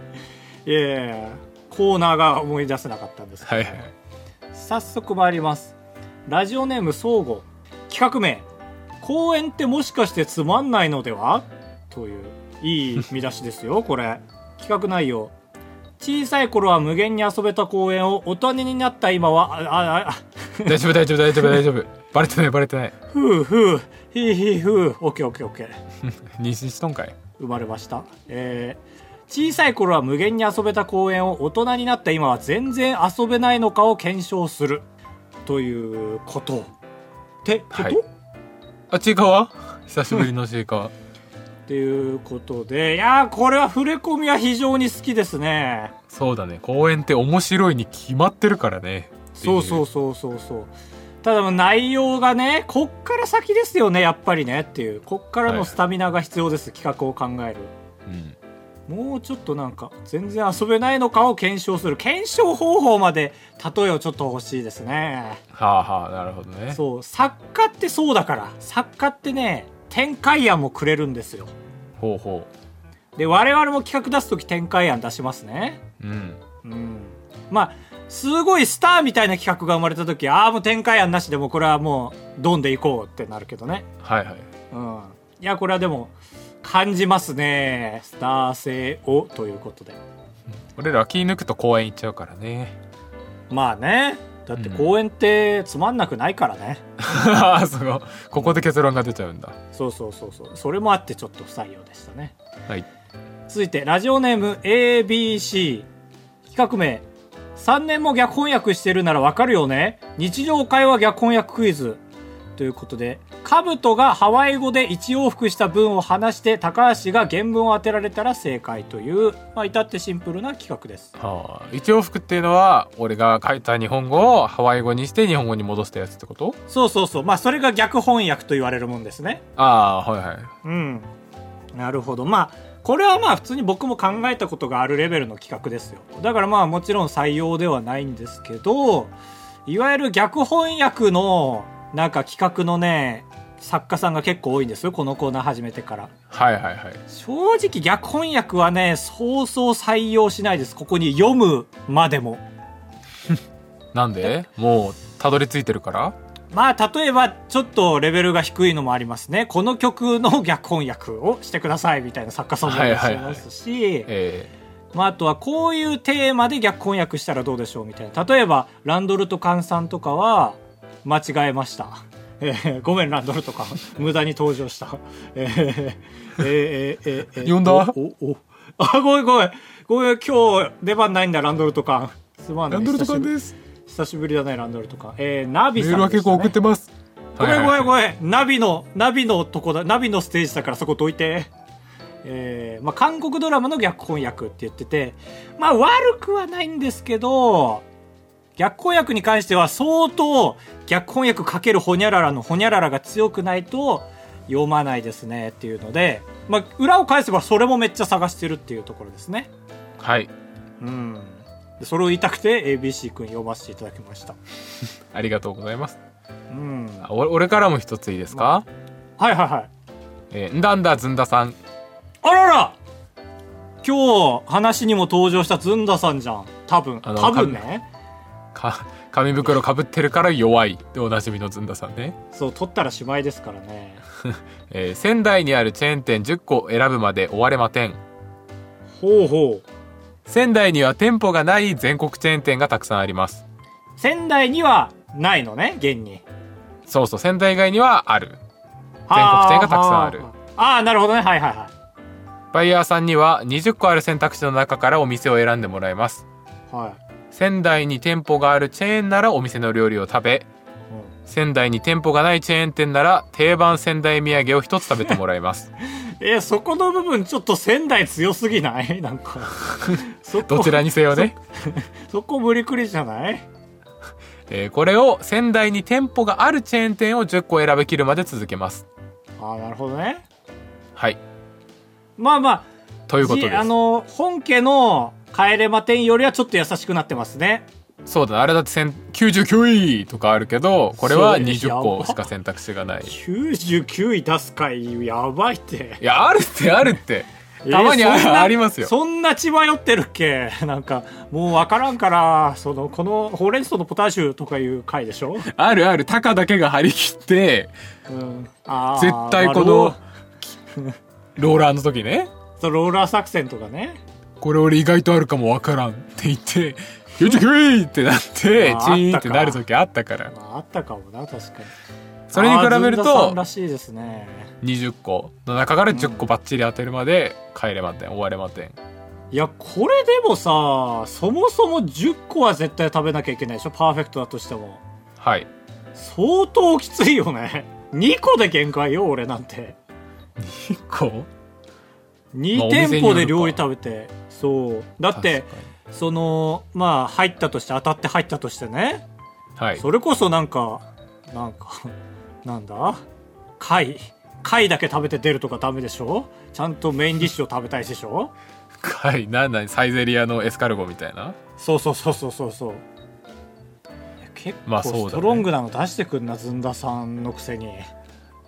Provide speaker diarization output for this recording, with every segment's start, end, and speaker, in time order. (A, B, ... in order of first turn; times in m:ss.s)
0:00.6-0:03.8 A
0:03.4-0:03.9 B
0:04.5-0:05.7 A
0:06.3-0:08.5 A
0:09.0-0:15.3 A
0:16.0-0:20.8 A
0:20.6-0:22.9 B
0:23.1-0:25.8 A
0:26.0-0:27.2 B
0:27.4-0:34.9 A
0:35.4-0:36.7 A
0:37.4-0:38.0 A
0:37.7-0:38.0 B
0:38.9-0:40.9 B
0:41.7-0:45.9 A
0:46.1-0:49.8 B
0:49.4-0:50.7 A
0:51.2-0:57.7 A
0:55.5-0:55.7 B
0:58.1-0:58.4 B
0:58.9-1:05.4 A
1:05.5-1:06.8 B
1:06.7-1:11.5 A
1:12.0-1:12.5 B
1:13.2-1:15.8 A
1:16.0-1:16.4 B
1:16.6-1:23.9 A
1:24.0-1:24.5 B
1:24.7-1:30.0 A
1:30.7-1:32.8 B
1:33.5-1:36.8 A
1:34.6-1:34.9 B
1:37.0-1:39.6 B
1:39.7-1:42.4 A
1:43.5-1:45.9 A
1:46.5-1:52.0 A
1:52.6-2:01.1 A
2:01.2-2:06.6 B
2:06.7-2:09.4 A
2:09.6-2:10.5 B
2:10.6-2:11.1 A
2:11.7-2:19.1 A
2:19.6-2:26.1 A
2:26.3-2:27.0 B
2:27.1-2:32.4 A
2:33.9-2:36.1 B
2:36.5-2:44.1 A
2:42.6-2:43.4 B
2:44.1-2:44.5 B
2:44.9-3:03.3 A
2:57.4-2:57.9 B
3:02.7-3:03.6 B
3:03.9-3:06.5 A
3:05.8-3:07.9 B
3:07.4-3:11.5 A
3:12.2-3:17.9 A
3:18.6-3:29.5 A
3:30.0-3:30.3 B
3:30.8-3:34.4 A
3:35.1-3:36.0 B
3:36.5-3:37.1 A
3:37.0-3:38.6 B
3:39.2-3:39.7 A
3:40.3-3:41.6 B
3:42.2-3:42.8 A
3:43.8-3:47.9 A
3:47.0-3:47.6 B
3:48.5-3:52.2 B
3:52.3-3:54.0 A
3:54.2-3:58.0 B
3:58.9-3:59.6 A
4:00.2-4:03.4 B
4:04.0-4:06.2 A
4:06.9-4:08.4 B
4:09.1-4:11.7 A
4:09.1-4:10.3 B
4:12.5-4:16.2 B
4:16.7-4:17.0 A
4:17.3-4:20.5 B
4:21.3-4:25.7 B
4:25.8-4:33.5 A
4:29.7-4:31.4 B
4:34.5-4:38.9 B
4:39.4-4:40.2 A
4:42.2-4:47.7 A
4:43.1-4:43.7 B
4:48.1-4:53.1 B
4:51.0-4:52.2 A
4:53.1-4:56.0 A
4:56.0-4:58.9 B
4:57.6-5:05.5 A
5:05.4-5:07.7 B
5:08.1-5:11.0 A
5:09.0-5:10.0 B
5:11.4-5:12.3 B
5:12.6-5:14.0 A
5:14.4-5:20.3 B
5:18.6-5:19.6 A
5:20.3-5:21.7 A
5:22.3-5:23.4 B
5:22.3-5:24.5 A
5:24.6-5:28.8 B
5:25.9-5:26.2 A
5:29.3-5:34.8 A
5:35.2-5:35.5 B
5:35.9-5:39.8 A
5:40.4-5:41.3 B
5:42.3-5:49.1 A
5:42.5-5:43.6 B
5:45.1-5:45.7 B
5:49.6-5:49.8 B
5:49.8-5:53.0 A
5:53.6-5:58.3 A
5:58.8-6:01.4 B
6:01.6-6:02.8 A
6:04.2-6:07.9 A
6:04.7-6:05.5 B